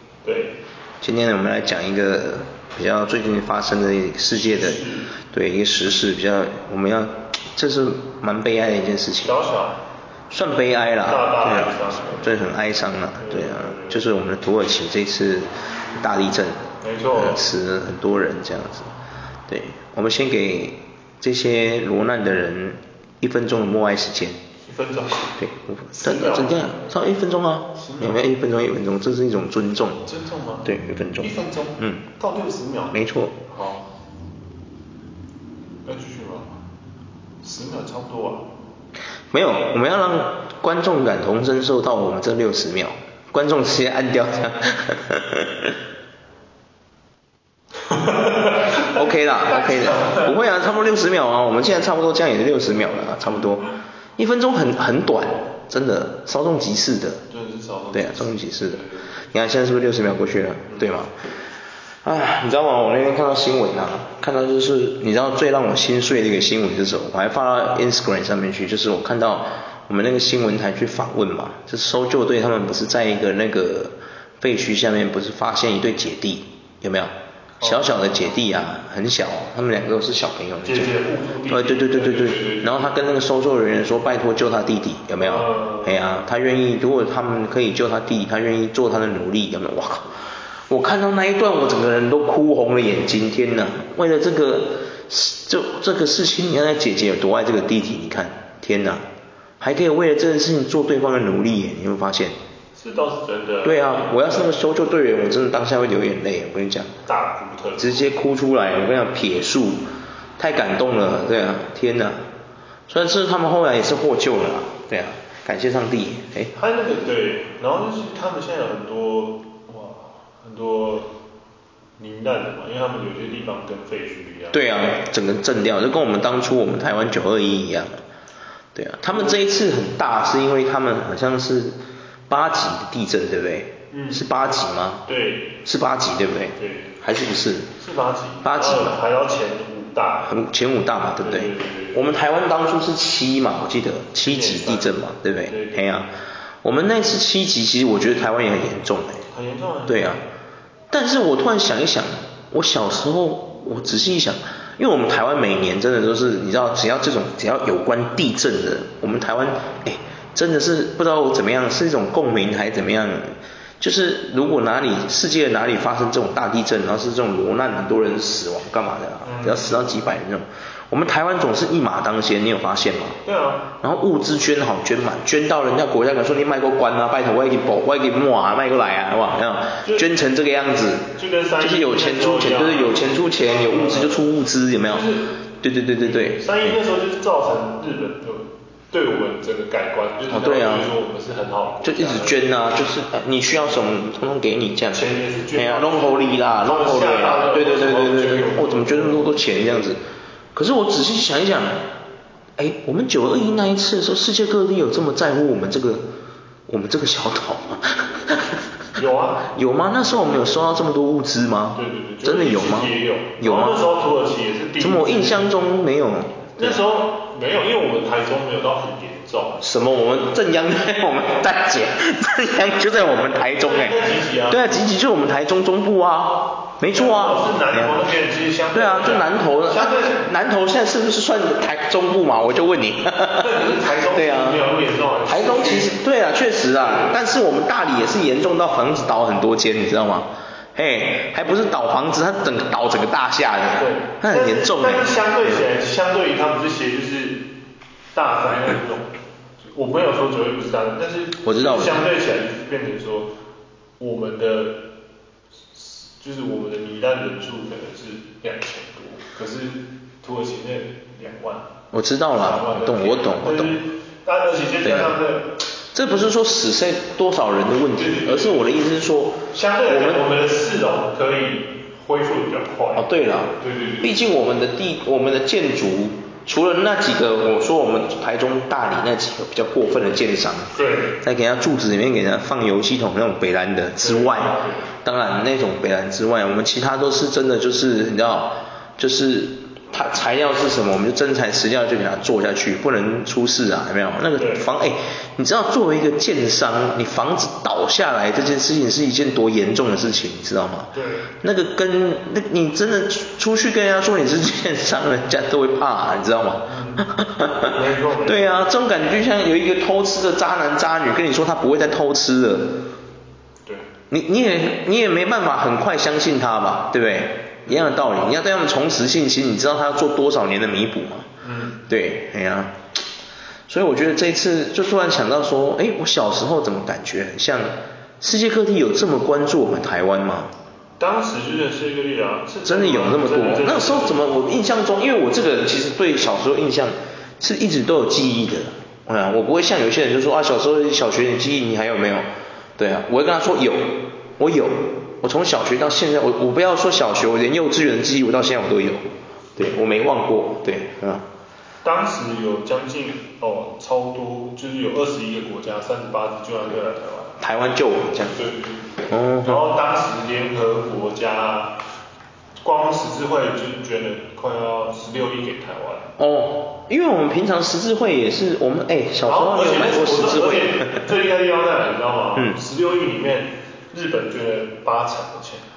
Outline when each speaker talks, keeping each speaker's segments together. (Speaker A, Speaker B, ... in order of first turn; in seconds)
Speaker A: 0.2-0.6, 4.3-5.1, 9.2-9.8, 11.0-12.4, 13.2-14.0, 16.8-17.4, 24.6-25.4, 25.9-26.8, 27.8-28.2, 30.1-33.9, 35.8-36.6, 37.4-38.5, 47.9-50.4, 57.3-59.1, 77.6-77.9, 80.6-82.9, 85.2-85.9, 102.7-104.3, 107.1-108.0, 116.5-121.1, 122.0-124.6, 129.1-129.5, 133.9-134.3, 135.1-135.6, 136.6-136.9, 137.8-140.3, 141.2-142.0, 144.2-145.8, 149.3-150.2, 169.2-169.7, 173.2-173.7, 179.8-180.1, 181.1-184.3, 184.8-185.3, 186.0-192.6, 194.9-199.9, 208.9-209.5, 210.2-210.7, 211.7-215.6, 216.6-219.6, 223.2-224.7, 226.9-230.2, 233.4-236.0, 236.7-237.2, 243.8-247.4, 248.1-249.1, 249.6-253.3, 254.0-254.8, 255.7-261.6, 262.3-265.6, 267.9-268.8, 269.5-274.2, 280.7-281.2, 284.0-284.9, 294.4-294.7, 300.9-301.3, 306.7-307.1, 307.6-308.6, 317.6-318.0, 321.4-321.8, 331.0-334.2, 351.8-357.4, 358.2-361.7, 362.6-366.1, 369.2-375.6
Speaker B: 1.0-9.4, 10.3-18.9, 19.5-24.4, 25.4-30.0, 30.6-32.0, 32.9-33.4, 39.3-45.8, 48.8-57.2, 57.9-61.1, 62.0-80.9, 81.5-99.0, 99.6-102.3, 103.6-106.9, 107.8-109.9, 110.4-112.2, 112.9-116.5, 124.5-128.0, 128.7-135.1, 135.6-137.7, 138.4-138.9, 140.2-149.2, 149.9-150.2, 150.9-173.2, 173.8-186.8, 190.3-190.9, 191.8-200.0, 200.5-201.9, 202.6-206.1, 206.7-208.6, 209.5-213.8, 214.8-216.8, 219.6-228.0, 228.7-234.6, 235.2-245.6, 251.4-252.0, 261.9-263.7, 264.8-265.1, 265.9-270.3, 272.9-312.8, 314.1-321.3, 321.9-322.8, 323.7-330.5, 332.6-342.2, 342.8-351.3, 357.4-358.4, 359.0-359.6, 366.2-371.0